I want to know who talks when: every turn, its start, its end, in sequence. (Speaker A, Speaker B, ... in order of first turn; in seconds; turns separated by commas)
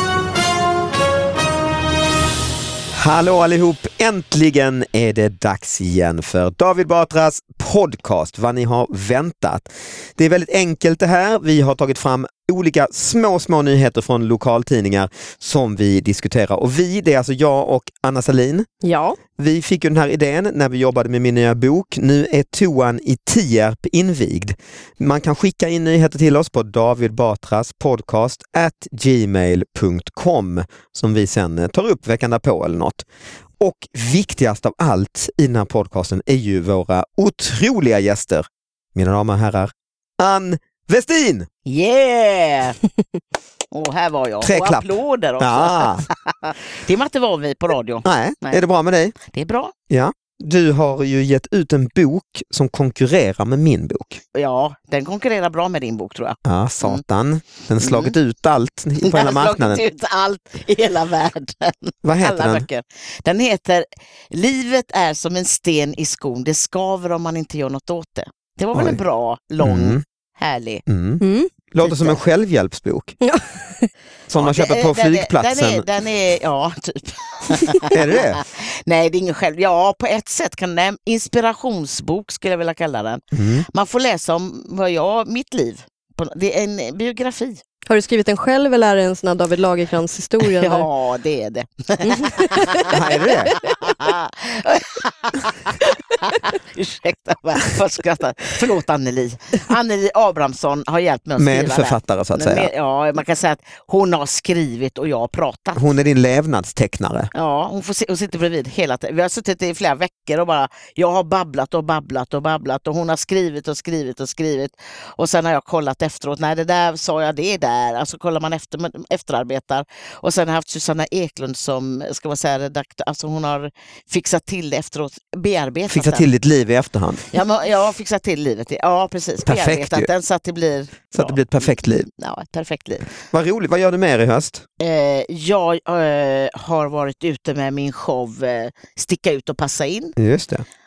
Speaker A: 2.9-18.7, Speaker B: 18.8-19.2, Speaker A: 19.4-33.0, Speaker A: 33.6-41.5, Speaker C: 41.6-42.8, Speaker C: 43.7-48.6, Speaker A: 44.4-46.1, Speaker A: 48.0-49.1, Speaker C: 49.2-49.7, Speaker A: 49.9-54.2, Speaker C: 54.3-57.0, Speaker A: 56.5-59.8, Speaker C: 57.8-58.1, Speaker C: 59.0-70.8, Speaker A: 62.0-62.7, Speaker A: 68.7-69.0, Speaker A: 69.6-70.0, Speaker A: 70.9-73.2, Speaker B: 71.2-71.5, Speaker C: 71.8-72.2, Speaker B: 73.2-73.9, Speaker A: 74.3-75.9, Speaker C: 74.3-87.6, Speaker A: 77.9-78.4, Speaker A: 83.3-83.7, Speaker B: 87.9-90.9, Speaker C: 90.4-105.8, Speaker B: 92.1-92.9, Speaker A: 92.9-93.5, Speaker A: 101.4-102.7, Speaker A: 105.8-107.3, Speaker C: 107.3-126.3, Speaker A: 125.9-127.3, Speaker C: 127.3-133.1, Speaker A: 129.4-130.1, Speaker A: 131.1-132.1, Speaker A: 133.3-134.7, Speaker C: 134.8-140.2, Speaker A: 140.2-140.7